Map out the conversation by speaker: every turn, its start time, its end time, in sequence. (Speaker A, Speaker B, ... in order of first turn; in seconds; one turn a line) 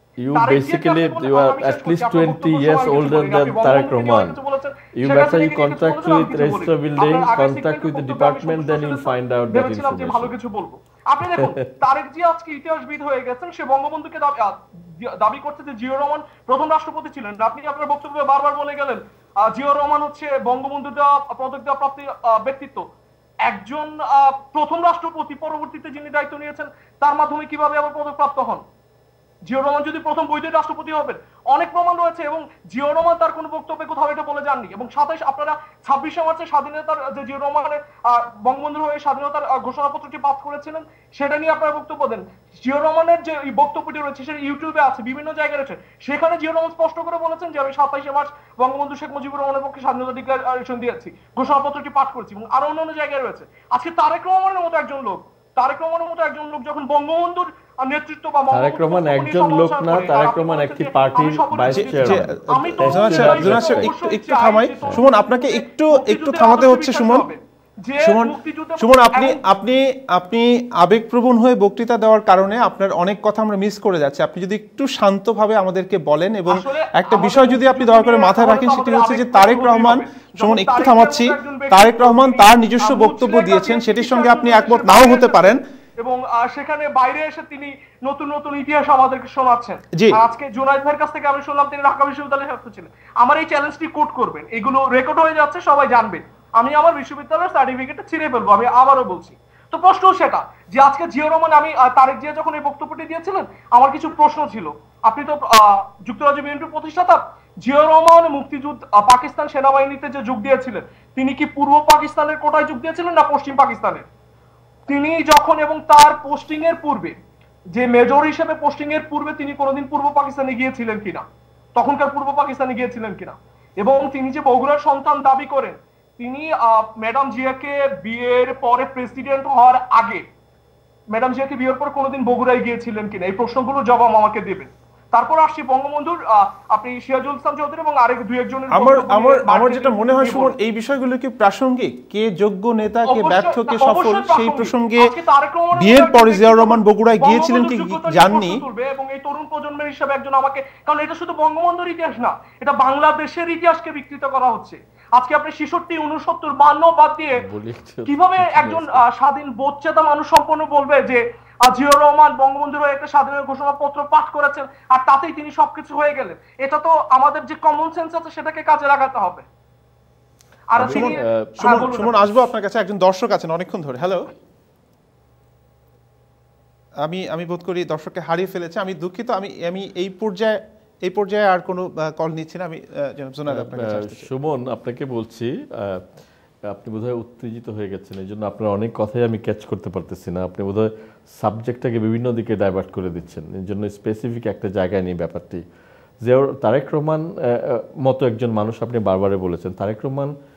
Speaker A: 0.2-4.4
Speaker B: 0.3-22.9
Speaker A: 4.9-10.3
Speaker A: 11.4-11.7
Speaker B: 23.5-28.6
Speaker B: 29.5-69.4
Speaker A: 58.5-63.9
Speaker C: 61.7-67.3
Speaker C: 68.0-85.6
Speaker B: 76.5-114.1
Speaker B: 114.9-117.2
Speaker B: 117.7-121.2
Speaker B: 121.8-130.2
Speaker B: 131.1-140.5
Speaker C: 138.7-145.1
Speaker B: 143.1-157.4
Speaker C: 145.7-148.6
Speaker A: 157.4-159.0
Speaker B: 158.1-169.4
Speaker B: 170.7-172.4
Speaker A: 170.8-171.9
Speaker C: 170.8-174.3
Speaker C: 177.0-184.3
Speaker A: 183.5-186.1
Speaker A: 186.7-195.6
Speaker A: 196.2-200.3